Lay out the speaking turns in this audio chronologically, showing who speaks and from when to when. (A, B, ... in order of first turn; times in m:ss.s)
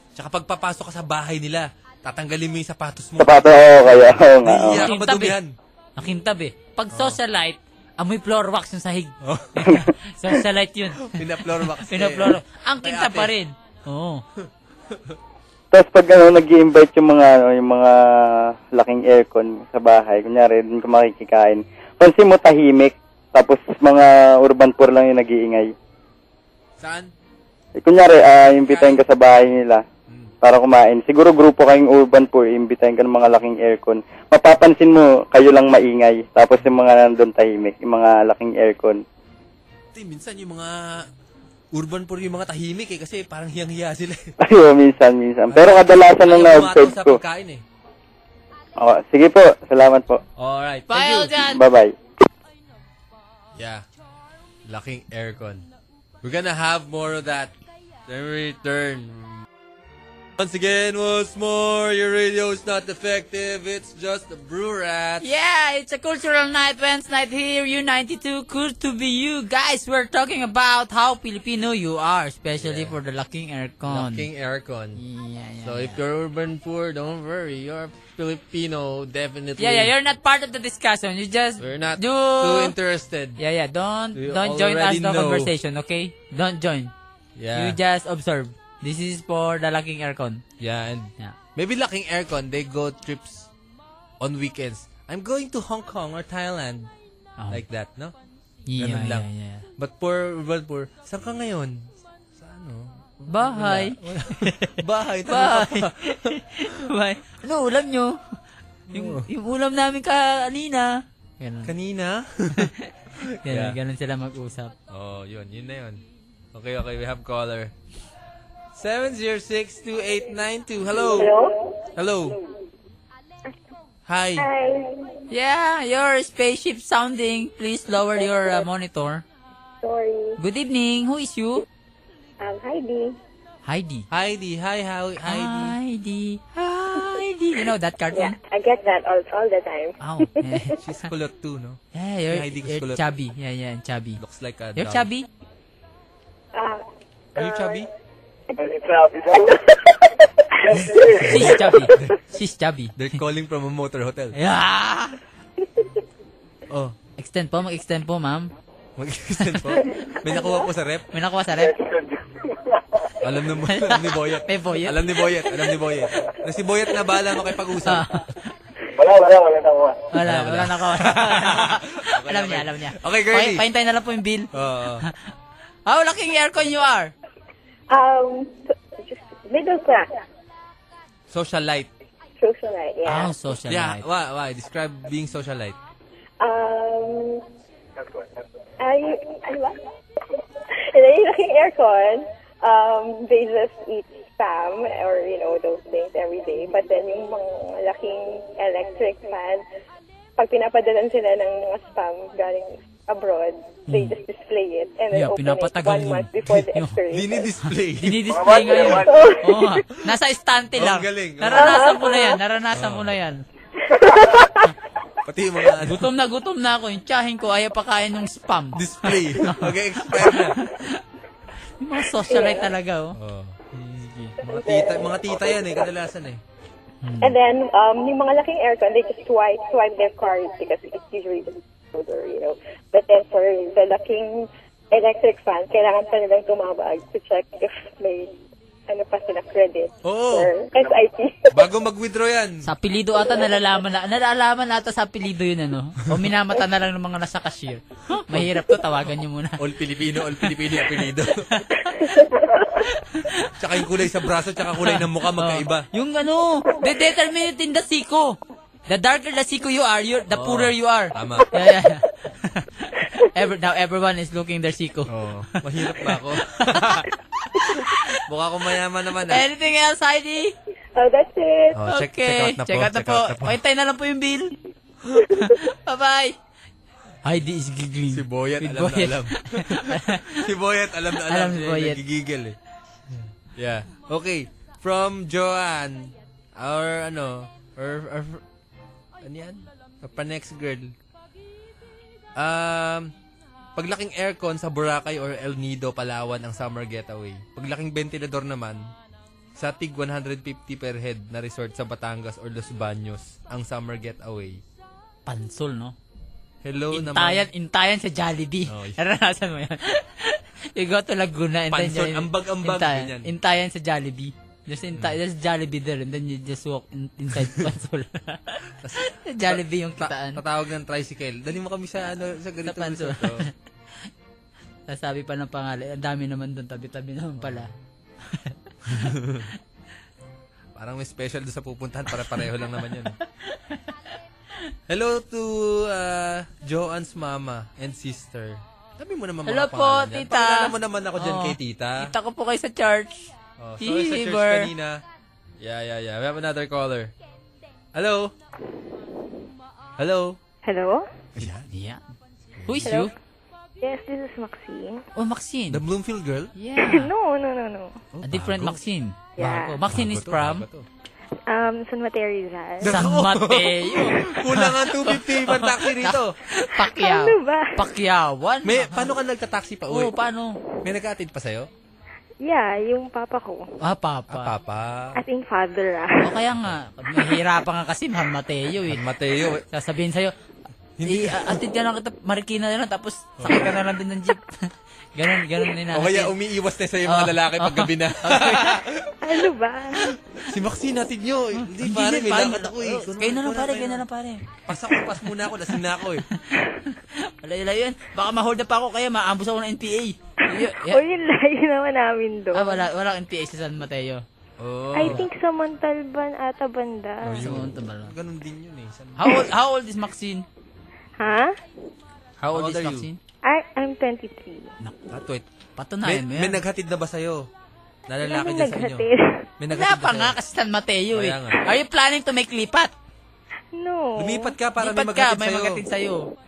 0:00.2-0:05.5 A
0:03.2-0:04.8 B
0:04.7-0:05.4 C
0:06.0-0:14.2 C
0:06.9-0:07.2 A
0:09.2-0:09.8 A
0:11.0-0:13.3 A
0:14.4-0:15.2 A
0:15.7-0:25.7 B
0:26.8-0:27.1 A
0:27.8-0:29.8 B
0:28.7-0:29.0 A
0:30.1-0:30.3 A
0:30.4-0:39.0 B
0:39.9-0:41.1 A
0:41.7-0:44.3 A
0:44.4-0:47.2 B
0:45.5-0:47.6 A
0:48.8-0:50.2 B
0:50.4-0:51.3 A
0:50.9-0:51.6 C
0:51.4-0:51.9 B
0:53.6-0:53.8 A
0:54.7-0:55.7 A
0:56.2-0:57.5 A
0:58.1-0:59.4 A
1:00.4-1:05.3 A
1:05.2-1:14.3 C
1:12.6-1:13.0 A
1:13.9-1:15.0 A
1:15.0-1:16.0 C
1:15.6-1:19.9 A
1:19.6-1:22.8 C
1:21.6-1:23.4 A
1:23.4-1:26.9 C
1:24.2-1:25.5 A
1:27.4-1:27.8 A
1:27.6-1:30.4 C
1:30.6-1:33.5 A
1:34.2-1:36.9 A
1:37.4-1:37.6 C
1:37.5-1:38.2 A
1:38.7-1:39.7 C
1:38.8-1:46.4 A
1:43.3-1:48.2 C
1:48.9-1:49.3 A
1:48.9-1:51.7 C
1:51.6-1:53.8 A
1:52.6-1:52.9 C
1:53.4-1:54.7 C
1:54.9-1:56.0 A
1:56.5-1:57.7 A
1:58.7-2:01.4 A
2:00.9-2:01.8 D
2:01.9-2:02.4 A
2:04.1-2:04.5 A
2:04.4-2:05.2 D
2:05.3-2:09.2 C
2:08.2-2:08.6 D
2:09.8-2:10.4 D
2:10.4-2:11.6 C
2:12.4-2:13.2 D
2:13.6-2:14.1 C
2:14.1-2:15.8 A
2:15.2-2:18.4 C
2:18.1-2:20.0 D
2:20.0-2:20.8 C
2:20.8-2:23.0 A
2:21.9-2:24.2 C
2:24.2-2:25.1 A
2:24.8-2:25.3 C
2:26.5-2:26.8 D
2:27.4-2:27.9 A
2:27.4-2:27.8 D
2:30.8-2:32.2 A
2:31.2-2:33.2 C
2:33.0-2:34.4 A
2:34.4-2:35.2 C
2:36.7-2:37.0 A
2:37.2-2:38.5 C
2:39.0-2:41.1 A
2:39.5-2:39.8 C
2:41.1-2:41.8 C
2:43.2-2:48.2 A
2:43.7-2:45.0 C
2:47.8-2:48.3 C
2:50.1-2:54.5 C
2:50.2-2:53.6 A
2:54.5-2:55.1 A
2:55.9-2:57.1 C
2:57.9-3:00.1 D
3:01.3-3:01.9 A
3:02.4-3:03.3 D
3:03.0-3:04.0 C
3:03.7-3:05.8 A
3:06.4-3:07.4 D
3:08.8-3:09.8 D
3:10.4-3:19.6 D
3:20.4-3:27.5 D
3:23.9-3:24.2 C
3:25.1-3:27.0 C
3:27.1-3:29.0 A
3:27.6-3:33.4 C
3:29.0-3:29.4 D
3:30.8-3:31.8 A
3:31.6-3:32.4 D
3:32.7-3:33.2 A
3:35.2-3:36.1 A
3:35.8-3:41.0 C
3:38.7-3:40.6 A
3:41.8-3:43.2 C
3:42.3-3:42.7 D
3:43.2-3:46.4 A
3:44.4-3:45.3 D
3:47.0-3:47.4 C
3:47.2-3:58.4 D
3:58.9-4:01.6 D
4:00.0-4:00.6 A
4:01.5-4:02.7 A
4:02.6-4:09.6 C
4:08.3-4:08.7 A
4:09.6-4:11.5 A
4:10.4-4:13.5 C
4:13.6-4:15.9 A
4:14.8-4:18.4 C
4:18.9-4:28.2 C
4:20.3-4:21.5 A
4:25.1-4:27.1 A
4:27.6-4:29.4 A
4:29.3-4:30.5 C
4:31.0-4:31.8 D
4:31.7-4:33.6 A
4:31.8-4:34.6 C
4:35.2-4:36.4 C
4:37.2-4:40.4 C
4:38.1-4:42.6 A
4:41.3-4:42.0 C
4:43.1-4:48.4 A
4:49.2-4:50.9 A
4:52.4-4:53.1 A
4:53.8-4:58.9 A
4:59.6-5:04.6 A
5:05.3-5:06.0 C
5:06.6-5:07.5 A
5:06.9-5:20.4 C
5:08.7-5:09.0 A
5:11.7-5:13.3 A
5:17.3-5:17.7 A
5:18.8-5:23.5 A
5:22.7-5:23.5 C
5:24.9-5:27.7 C
5:27.4-5:27.7 A
5:28.3-5:29.1 C
5:28.9-5:29.5 A
5:30.8-5:33.2 A
5:32.2-5:33.8 C
5:34.9-5:42.1 A
5:39.5-5:44.7 C
5:43.6-5:45.0 A
5:45.6-5:47.1 A
5:47.9-5:48.3 A
5:50.0-5:50.4 A
5:50.6-5:51.0 E
5:51.4-5:51.7 A
5:51.4-5:52.0 C
5:52.6-5:53.0 A
5:52.6-5:53.1 C
5:52.9-5:53.1 E
5:53.8-5:55.0 E
5:55.2-5:55.8 C
5:55.7-5:56.5 A
5:56.6-5:57.1 C
5:56.8-5:58.0 E
5:58.1-5:58.8 A
5:58.2-6:00.7 C
5:59.4-5:59.8 E
5:59.9-6:00.9 A
6:01.5-6:02.9 E
6:02.8-6:06.4 A
6:02.8-6:09.1 C
6:06.8-6:07.7 E
6:08.6-6:10.1 A
6:09.9-6:10.6 C
6:10.8-6:11.7 A
6:12.4-6:13.7 E
6:13.8-6:14.5 C
6:14.3-6:15.2 A
6:15.2-6:16.3 E
6:16.2-6:19.0 C
6:18.9-6:19.6 A
6:19.7-6:20.3 C
6:21.0-6:21.6 A
6:21.0-6:26.3 C
6:23.4-6:23.8 A
6:25.9-6:29.2 A
6:27.1-6:28.8 C
6:29.2-6:30.0 E
6:30.0-6:34.0 A
6:31.6-6:35.2 C
6:34.7-6:36.3 A
6:36.4-6:41.0 C
6:40.5-6:42.9 E
6:42.5-6:44.2 C
6:44.6-6:45.3 A
6:44.9-6:47.4 E
6:47.2-6:49.3 A
6:47.4-6:48.1 C
6:49.2-6:50.5 C
6:51.2-6:51.5 E
6:52.4-6:53.2 C
6:52.5-6:53.1 A
6:53.4-6:54.7 E
6:55.1-6:55.4 A
6:55.8-6:56.6 C
6:56.0-6:57.5 A
6:58.1-6:59.1 A
6:58.2-6:59.2 E
6:59.6-7:00.4 A
6:59.7-7:02.9 C
7:01.1-7:01.6 A
7:03.8-7:04.5 E
7:04.2-7:05.8 A
7:04.8-7:06.3 C